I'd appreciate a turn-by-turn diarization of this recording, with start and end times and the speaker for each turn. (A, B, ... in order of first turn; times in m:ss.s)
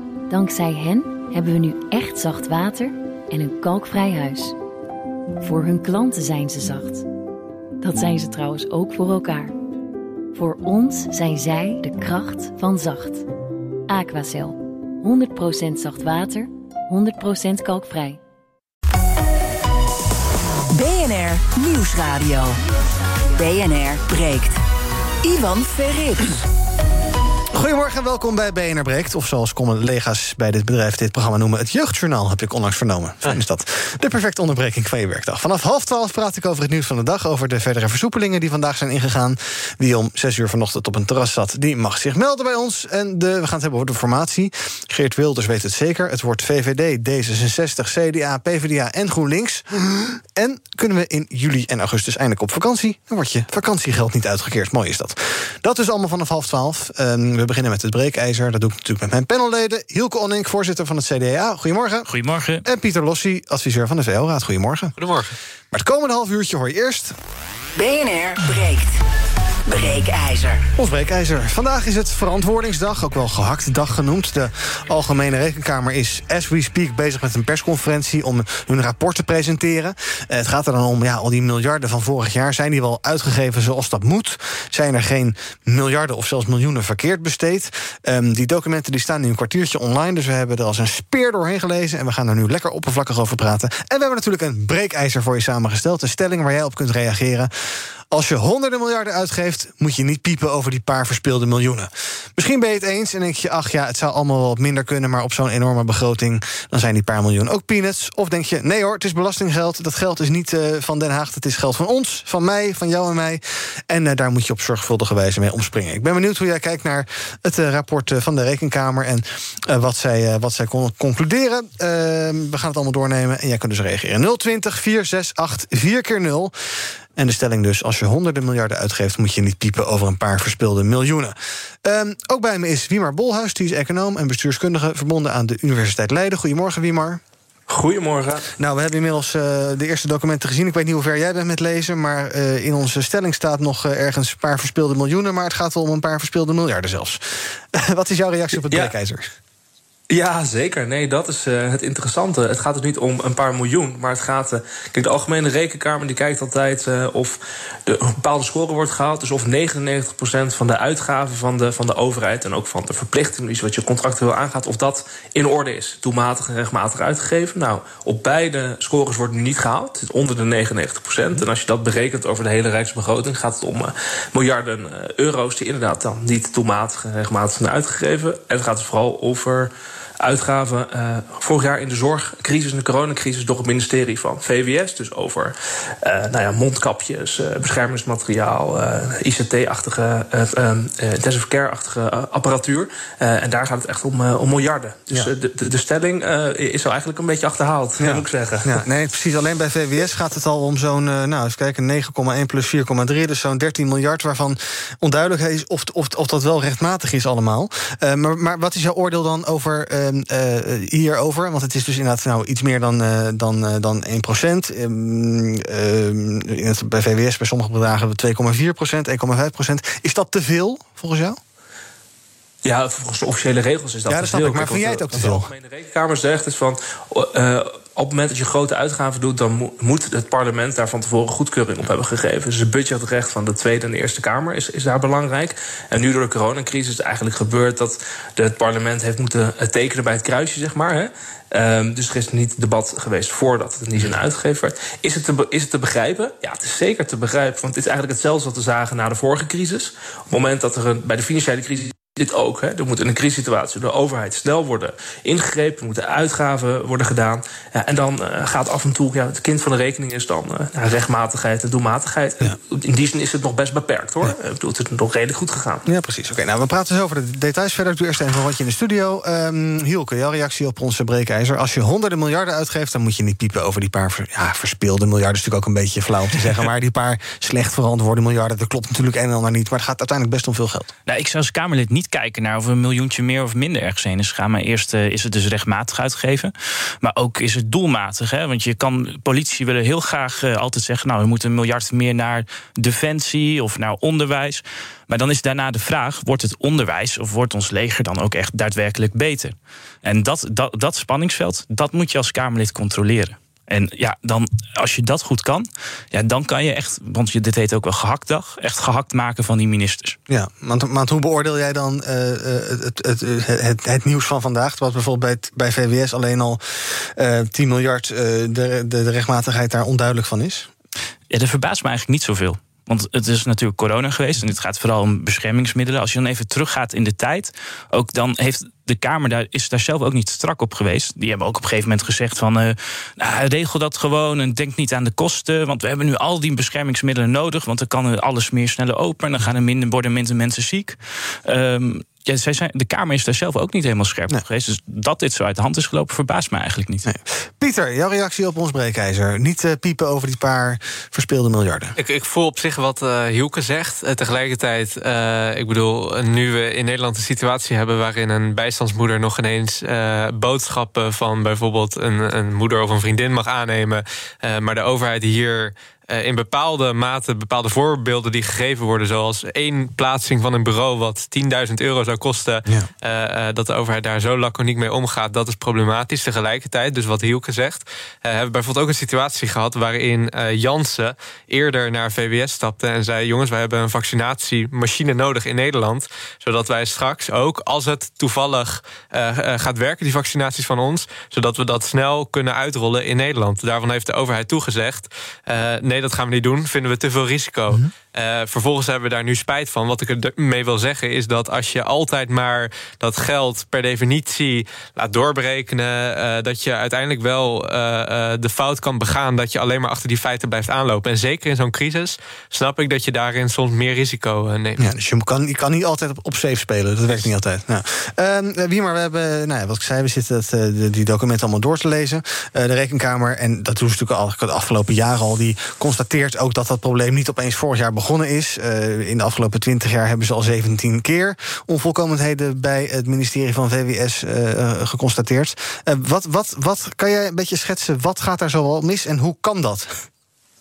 0:00.3-0:04.6 A
0:05.4-0:07.1 A
0:07.8-0:09.6 A
0:10.3-0:13.2 A
0:13.9-0:18.2 A
0:20.7-0:22.6 B
0:23.4-0:24.6 B
0:25.2-0:26.4 B
0:27.5-1:02.1 C
1:02.1-1:02.6 D
1:02.6-1:05.0 C
1:05.0-1:05.3 E
1:05.7-1:07.2 C
1:07.8-1:09.0 B
1:09.7-1:10.6 B
1:10.8-1:37.5 C
1:38.1-2:06.5 C
2:07.2-2:17.2 C
2:17.7-2:18.5 F
2:18.6-2:27.2 C
2:27.7-2:29.3 C
2:30.1-3:18.8 F
3:18.0-3:41.4 C
3:42.6-4:25.9 F
3:44.1-3:45.5 C
4:25.9-4:40.9 C
4:41.1-5:10.2 D
5:10.3-5:20.7 C
5:21.3-5:47.1 D
5:47.1-5:51.9 C
5:52.0-6:54.8 E
6:54.8-7:19.9 C